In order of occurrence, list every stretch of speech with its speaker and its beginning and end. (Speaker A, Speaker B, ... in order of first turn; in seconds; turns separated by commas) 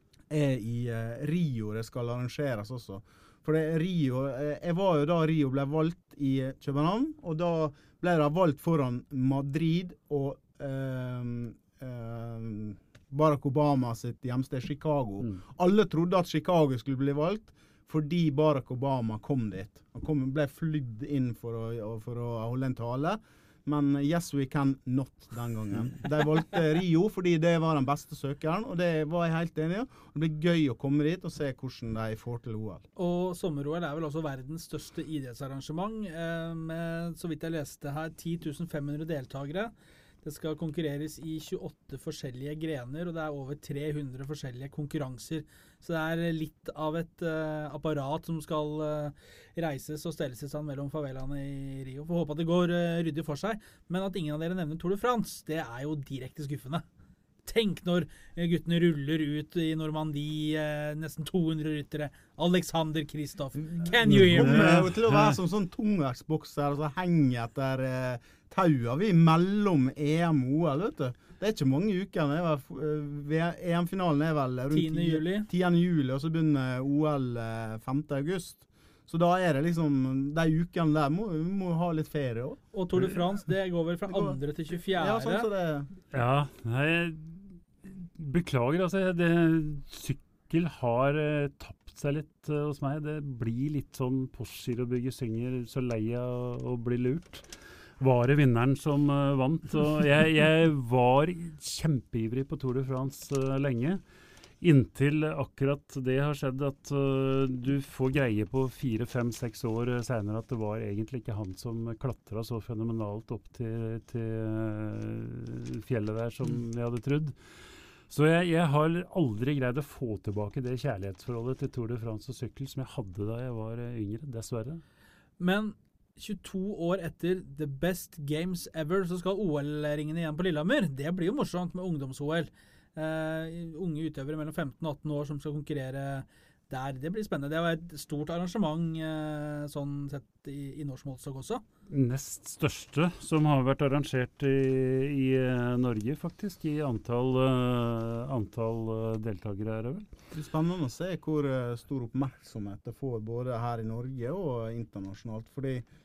Speaker A: 0.3-32.8, Speaker B: 33.0-56.8, Speaker B: 57.5-64.8, Speaker A: 63.8-82.6, Speaker C: 64.0-65.4, Speaker B: 74.7-75.5, Speaker B: 82.7-85.5, Speaker A: 84.1-85.9, Speaker C: 86.1-97.5, Speaker C: 98.0-104.0, Speaker C: 104.6-117.3, Speaker C: 118.1-124.8, Speaker B: 125.4-141.6, Speaker C: 141.9-150.1, Speaker A: 150.3-155.8